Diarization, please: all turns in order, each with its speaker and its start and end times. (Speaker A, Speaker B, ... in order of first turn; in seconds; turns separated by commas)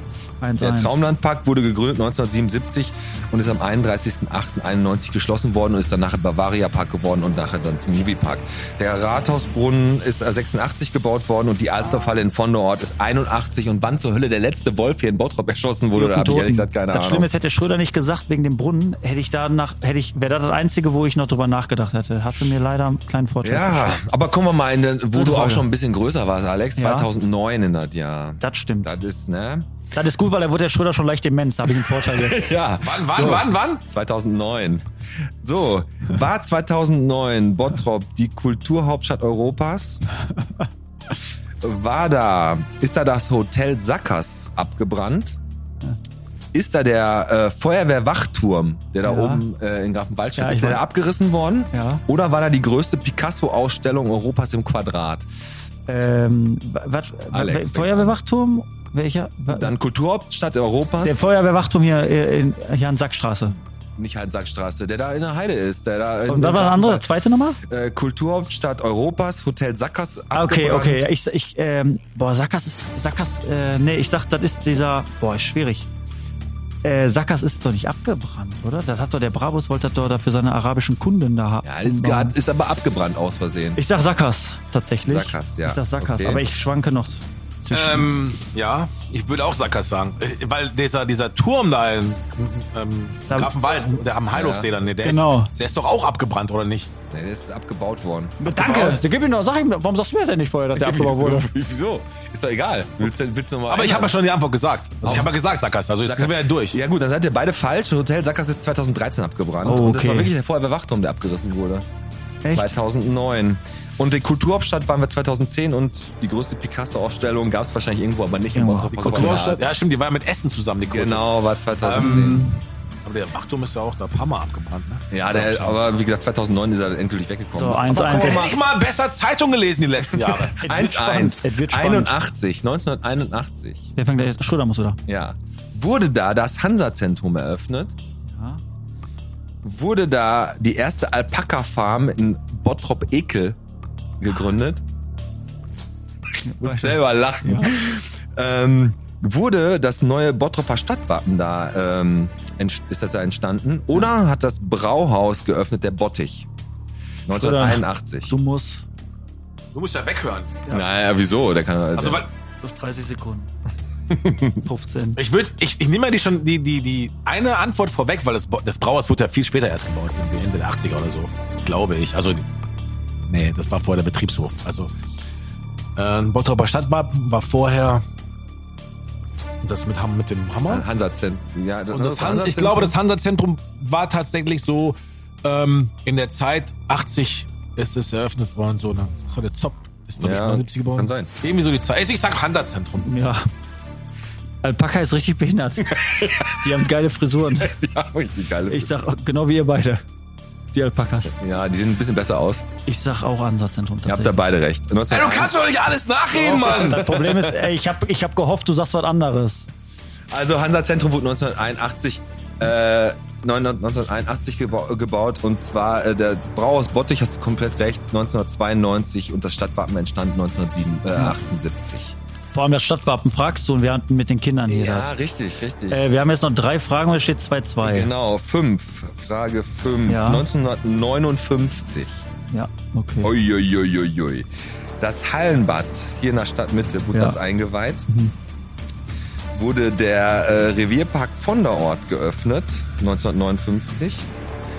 Speaker A: 0.4-1.1, Speaker B: 0.6-17.3, Speaker A: 15.9-24.0, Speaker B: 23.4-29.7, Speaker A: 25.1-25.6, Speaker A: 26.8-27.1, Speaker A: 28.4-28.9, Speaker A: 29.9-32.5, Speaker B: 31.6-40.0, Speaker C: 32.8-33.8, Speaker B: 41.6-45.4, Speaker B: 46.5-55.3, Speaker A: 49.0-49.4, Speaker A: 50.4-50.8, Speaker A: 51.7-52.0, Speaker A: 55.9-59.7, Speaker B: 57.3-58.2, Speaker B: 59.5-61.2, Speaker A: 61.0-63.6, Speaker B: 64.0-67.0, Speaker A: 66.3-67.6, Speaker B: 67.6-71.0, Speaker A: 70.3-75.9, Speaker A: 76.8-82.3, Speaker B: 81.6-83.8, Speaker A: 83.8-88.1, Speaker B: 85.0-86.4, Speaker C: 87.7-96.9, Speaker B: 94.3-94.7, Speaker A: 95.0-95.5, Speaker B: 97.1-98.4, Speaker A: 98.4-101.5, Speaker C: 98.5-99.0, Speaker B: 100.8-104.1, Speaker C: 103.7-106.8, Speaker B: 106.0-111.9, Speaker A: 109.6-110.3, Speaker A: 112.4-112.8, Speaker B: 112.5-119.6, Speaker A: 118.5-119.6, Speaker C: 119.0-122.4, Speaker B: 120.9-122.4, Speaker A: 121.9-122.6, Speaker C: 123.0-125.8, Speaker B: 125.1-128.5, Speaker A: 127.5-128.5, Speaker C: 127.9-130.6, Speaker B: 130.0-133.9, Speaker A: 130.6-132.1, Speaker A: 134.0-135.0, Speaker B: 135.1-137.9, Speaker A: 138.3-138.6, Speaker B: 139.6-143.6, Speaker B: 144.2-144.8, Speaker A: 146.4-147.7, Speaker B: 146.6-156.5, Speaker B: 157.3-158.3, Speaker A: 157.3-158.8, Speaker C: 159.7-160.6, Speaker B: 160.7-162.2, Speaker C: 161.9-162.3, Speaker A: 162.6-163.5, Speaker B: 164.1-164.6, Speaker A: 164.6-165.2, Speaker C: 165.2-172.5, Speaker C: 173.3-174.9, Speaker C: 175.9-178.0, Speaker C: 179.6-180.8, Speaker B: 180.7-182.9, Speaker C: 181.9-193.1, Speaker B: 190.2-191.3, Speaker A: 193.0-193.5, Speaker A: 194.6-197.8, Speaker B: 196.0-196.5, Speaker B: 197.6-198.9, Speaker A: 198.7-200.0, Speaker A: 200.7-201.3, Speaker B: 201.3-202.7, Speaker A: 202.8-204.5, Speaker B: 204.1-205.5, Speaker C: 205.1-207.2, Speaker B: 206.3-207.7, Speaker A: 206.4-209.7, Speaker B: 210.3-222.2, Speaker A: 222.5-225.1, Speaker B: 224.7-226.2, Speaker A: 225.9-228.1, Speaker B: 227.8-232.2, Speaker A: 230.1-230.4, Speaker A: 232.5-233.3, Speaker B: 233.2-234.5, Speaker B: 235.0-238.1, Speaker A: 238.1-238.3, Speaker B: 239.5-244.3